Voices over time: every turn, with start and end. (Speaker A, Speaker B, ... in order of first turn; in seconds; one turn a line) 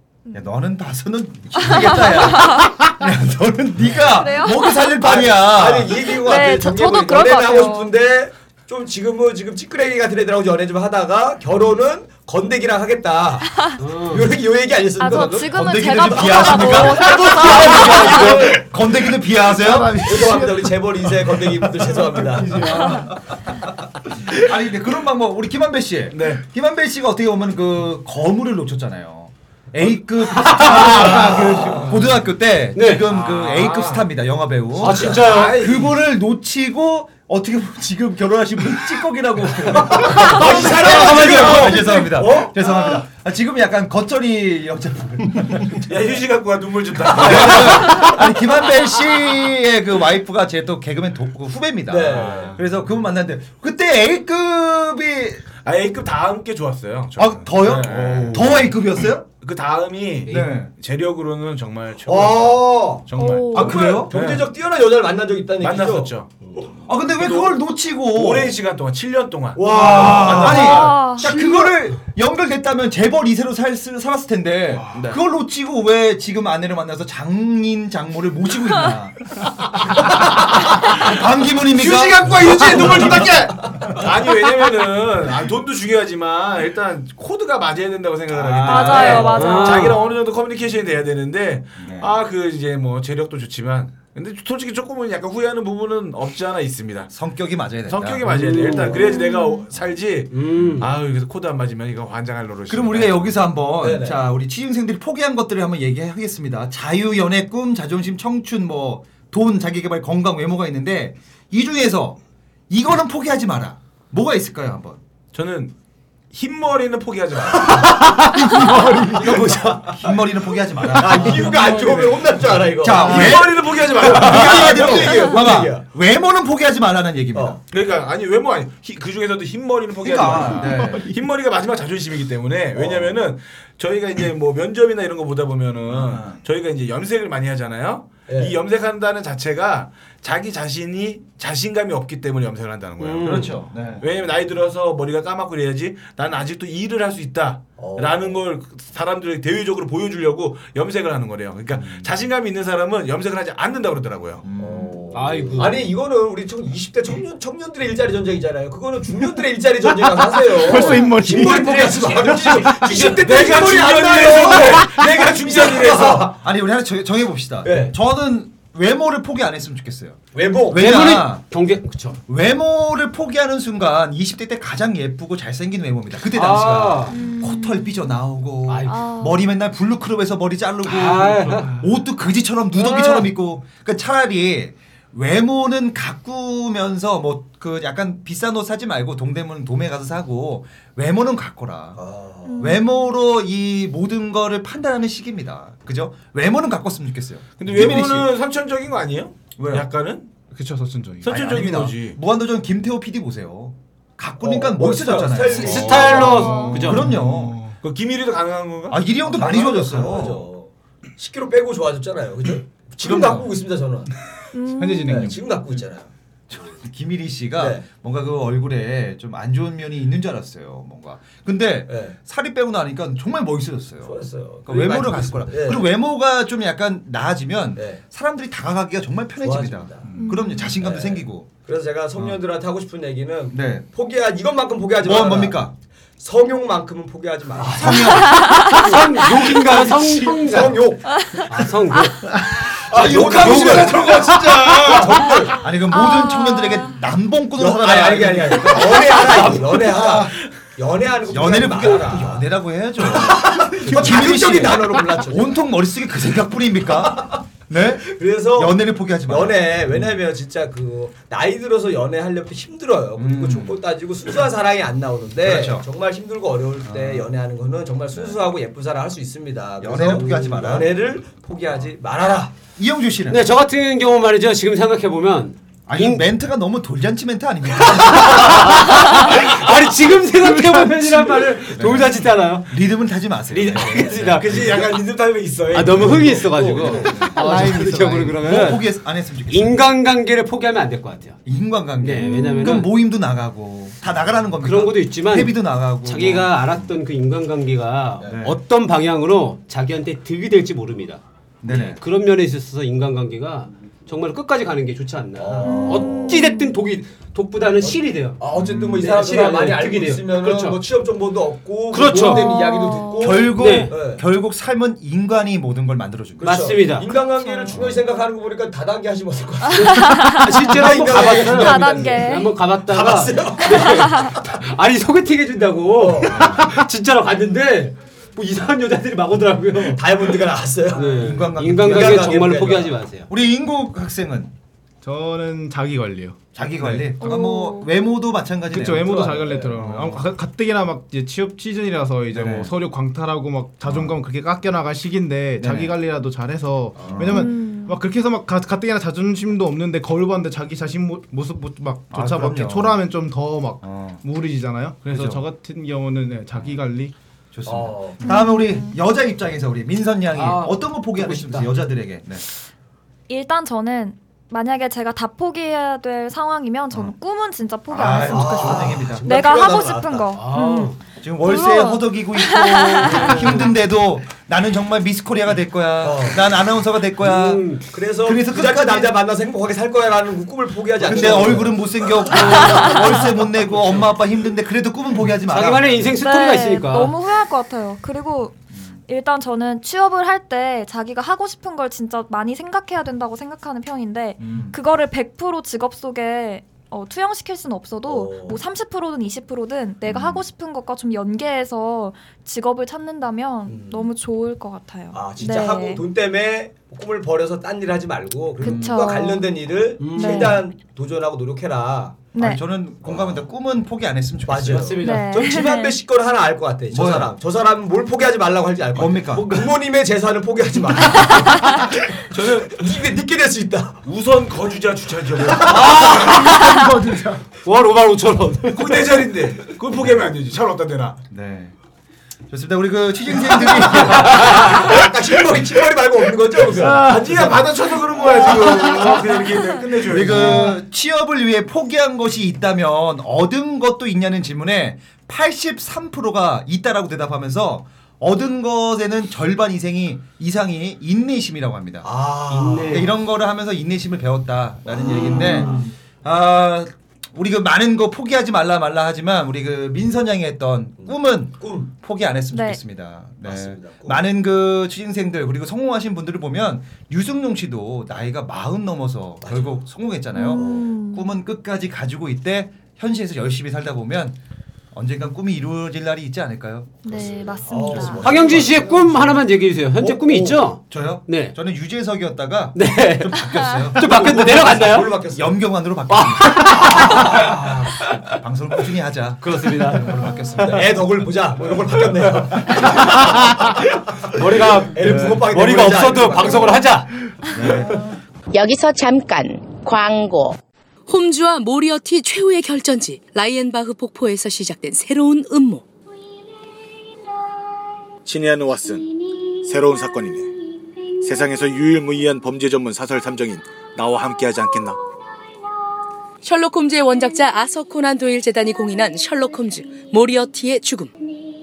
Speaker A: 0.3-6.0
Speaker B: 1.6-2.8
Speaker B: 4.1-4.9
Speaker C: 5.0-18.6
Speaker B: 6.2-7.9
Speaker D: 13.8-14.4
Speaker B: 15.0-18.1
Speaker A: 15.5-20.1
Speaker D: 17.1-18.3
Speaker E: 18.2-18.6
Speaker E: 19.5-20.8
Speaker C: 20.0-22.7
Speaker E: 22.4-23.1
Speaker A: 22.5-23.1
Speaker A: 24.3-46.0
Speaker F: 26.1-26.4
Speaker D: 30.2-31.6
Speaker D: 32.7-33.1
Speaker F: 33.1-34.1
Speaker D: 34.8-35.8
Speaker F: 34.8-35.9
Speaker D: 40.2-42.1
Speaker C: 40.2-42.8
Speaker F: 40.3-42.0
Speaker F: 45.8-48.1
Speaker A: 47.0-55.4
Speaker C: 51.9-52.6
Speaker F: 52.1-52.6
Speaker F: 55.6-58.8
Speaker A: 57.2-59.3
Speaker F: 59.4-64.5
Speaker D: 60.3-60.5
Speaker A: 60.3-60.7
Speaker C: 62.1-66.1
Speaker B: 63.2-63.8
Speaker A: 63.5-64.2
Speaker F: 65.6-66.3
Speaker A: 66.9-68.5
Speaker F: 67.2-67.5
Speaker F: 68.1-71.0
Speaker C: 69.6-70.9
Speaker A: 69.8-79.3
Speaker B: 70.4-71.3
Speaker F: 74.7-75.2
Speaker A: 80.7-83.3
Speaker F: 81.7-97.1
Speaker B: 88.6-90.2
Speaker C: 88.9-89.3
Speaker D: 89.3-90.1
Speaker A: 91.8-92.2
Speaker A: 97.1-98.3
Speaker F: 97.9-103.4
Speaker D: 98.2-99.1
Speaker B: 98.9-99.7
Speaker D: 100.3-100.9
Speaker A: 102.7-112.2
Speaker C: 103.8-104.2
Speaker A: 112.7-115.0
Speaker F: 115.3-115.7
Speaker F: 116.3-118.0
Speaker E: 118.0-119.5
Speaker C: 119.2-120.1
Speaker A: 119.9-121.8
Speaker C: 120.9-125.8
Speaker E: 121.4-121.7
Speaker F: 121.8-122.1
Speaker A: 122.8-127.6
Speaker F: 123.1-125.1
Speaker C: 127.3-127.6
Speaker F: 127.7-154.4
Speaker A: 130.0-131.1
Speaker E: 130.7-131.0
Speaker C: 132.8-133.1
Speaker A: 135.9-136.4
Speaker C: 138.3-138.6
Speaker D: 143.0-143.6
Speaker A: 143.2-144.1
Speaker C: 147.8-148.4
Speaker A: 151.7-152.1
Speaker A: 154.4-155.1
Speaker C: 154.6-166.3
Speaker D: 155.1-155.9
Speaker E: 160.6-162.9
Speaker F: 161.6-162.0
Speaker D: 162.8-163.3
Speaker F: 163.0-166.3
Speaker A: 166.3-171.5
Speaker C: 167.6-167.9
Speaker C: 170.3-170.9
Speaker D: 170.7-172.2
Speaker A: 172.3-192.0
Speaker D: 176.3-177.2
Speaker B: 177.1-178.2
Speaker D: 178.7-179.0
Speaker B: 178.9-179.4
Speaker D: 180.9-181.8
Speaker F: 181.3-181.6
Speaker B: 182.9-183.2
Speaker C: 192.0-192.7
Speaker B: 192.4-193.1
Speaker A: 192.6-198.3
Speaker F: 197.6-200.3
Speaker A: 199.6-199.9
Speaker E: 200.5-201.4
Speaker F: 201.2-202.2
Speaker A: 201.2-207.6
Speaker C: 204.4-206.6
Speaker D: 205.5-207.1
Speaker B: 206.3-206.9
Speaker E: 206.4-207.8
Speaker F: 207.8-209.1
Speaker A: 208.9-210.5
Speaker C: 209.2-214.1
Speaker A: 213.0-213.5
Speaker B: 214.5-215.3
Speaker E: 214.8-215.6
Speaker C: 215.1-216.1
Speaker A: 216.5-231.5
Speaker C: 217.6-217.8
Speaker C: 221.9-222.2
Speaker C: 224.1-225.9
Speaker C: 227.8-228.0
Speaker C: 229.4-230.2
Speaker B: 230.2-230.8
Speaker C: 230.8-235.7
Speaker A: 233.5-233.8
Speaker A: 235.0-235.8
Speaker C: 236.2-241.3
Speaker A: 237.6-238.4
Speaker D: 238.0-242.2
Speaker B: 238.4-238.8
Speaker B: 241.2-241.4
Speaker E: 242.3-242.6
Speaker C: 242.9-245.6
Speaker F: 243.0-245.0
Speaker A: 243.2-243.8
Speaker E: 243.3-245.3
Speaker A: 245.6-249.6
Speaker B: 245.9-247.0
Speaker C: 247.6-255.7
Speaker A: 251.3-260.2
Speaker C: 257.0-257.4
Speaker C: 258.1-272.6
Speaker A: 263.2-263.8
Speaker A: 265.4-265.9
Speaker A: 266.8-267.3
Speaker A: 269.8-271.1
Speaker D: 270.0-270.8
Speaker A: 272.8-273.5
Speaker D: 273.3-276.3
Speaker A: 275.9-279.4
Speaker D: 277.9-282.7
Speaker E: 280.6-281.3
Speaker A: 281.7-284.9
Speaker F: 283.5-287.1
Speaker D: 283.8-284.1
Speaker D: 285.7-288.9
Speaker A: 285.9-286.4
Speaker A: 287.0-287.4
Speaker E: 287.3-288.4
Speaker A: 288.4-289.9
Speaker D: 289.5-291.4
Speaker A: 291.5-296.9
Speaker D: 292.0-292.9
Speaker B: 292.2-292.9
Speaker D: 294.6-310.8
Speaker A: 298.3-298.6
Speaker A: 301.6-302.0
Speaker C: 305.4-306.6
Speaker B: 305.6-306.7
Speaker C: 307.8-314.2
Speaker A: 308.6-309.1
Speaker D: 311.9-312.7
Speaker B: 312.1-313.5
Speaker A: 313.2-316.8
Speaker D: 313.5-314.0
Speaker C: 316.4-324.2
Speaker D: 316.4-317.1
Speaker B: 317.4-317.8
Speaker A: 317.7-318.0
Speaker B: 319.8-322.5
Speaker D: 319.9-333.3
Speaker C: 325.9-326.6
Speaker C: 329.9-333.0
Speaker A: 331.2-332.4
Speaker A: 333.3-334.5
Speaker E: 335.0-337.2
Speaker A: 336.6-340.3
Speaker B: 337.2-337.9
Speaker E: 338.7-357.1
Speaker C: 338.7-339.9
Speaker A: 342.3-342.7
Speaker A: 343.9-344.2
Speaker A: 345.6-346.0
Speaker C: 347.0-347.3
Speaker A: 347.0-347.5
Speaker B: 347.3-348.0
Speaker A: 352.1-353.0
Speaker A: 353.8-354.2
Speaker A: 355.1-355.4
Speaker A: 357.5-362.4
Speaker C: 357.7-358.2
Speaker B: 358.2-358.9
Speaker D: 360.3-361.7
Speaker B: 363.3-373.6
Speaker A: 367.9-369.3
Speaker C: 368.2-370.3
Speaker D: 370.4-371.0
Speaker A: 371.2-377.7
Speaker D: 373.3-373.7
Speaker C: 376.0-376.4
Speaker D: 377.2-377.9
Speaker C: 377.9-382.3
Speaker A: 378.2-379.1
Speaker A: 381.0-386.2
Speaker D: 382.3-383.3
Speaker B: 382.4-383.2
Speaker D: 385.4-387.1
Speaker B: 386.2-406.0
Speaker A: 388.7-389.0
Speaker A: 394.4-394.8
Speaker C: 398.1-398.6
Speaker A: 400.1-400.4
Speaker C: 403.7-404.1
Speaker C: 405.1-412.3
Speaker A: 408.6-409.1
Speaker B: 408.6-409.5
Speaker D: 410.0-410.7
Speaker B: 410.1-410.6
Speaker B: 412.3-412.6
Speaker A: 412.4-415.0
Speaker C: 413.0-413.5
Speaker C: 414.5-424.0
Speaker D: 414.8-415.4
Speaker B: 415.0-416.0
Speaker A: 416.9-417.3
Speaker A: 419.0-419.5
Speaker D: 419.3-419.7
Speaker F: 422.3-422.8
Speaker F: 424.1-426.4
Speaker C: 425.7-426.5
Speaker D: 425.8-426.6
Speaker E: 426.5-427.4
Speaker D: 427.6-429.3
Speaker F: 428.7-431.2
Speaker A: 430.0-430.2
Speaker A: 431.3-431.7
Speaker A: 432.5-434.7
Speaker C: 434.2-437.2
Speaker F: 437.0-440.7
Speaker A: 440.0-452.1
Speaker C: 452.0-453.1
Speaker D: 452.5-453.1
Speaker A: 452.9-474.4
Speaker C: 454.9-455.9
Speaker D: 455.0-455.9
Speaker C: 461.0-461.9
Speaker B: 462.5-462.8
Speaker C: 463.4-464.2
Speaker C: 469.4-469.9
Speaker B: 470.3-471.4
Speaker C: 470.5-470.9
Speaker A: 474.9-478.8
Speaker B: 477.1-478.5
Speaker C: 477.2-479.4
Speaker D: 478.2-481.6
Speaker C: 480.0-480.6
Speaker A: 480.9-484.6
Speaker D: 482.8-485.2
Speaker C: 484.0-485.6
Speaker A: 485.3-487.0
Speaker D: 486.1-487.5
Speaker C: 486.7-488.0
Speaker A: 488.3-491.0
Speaker D: 489.4-490.3
Speaker C: 490.6-493.4
Speaker D: 493.1-493.7
Speaker D: 494.3-497.1
Speaker C: 494.9-496.9
Speaker A: 497.5-498.1
Speaker G: 498.5-500.6
Speaker H: 501.1-505.8
Speaker I: 508.2-510.5
Speaker I: 511.2-515.0
Speaker H: 516.4-521.1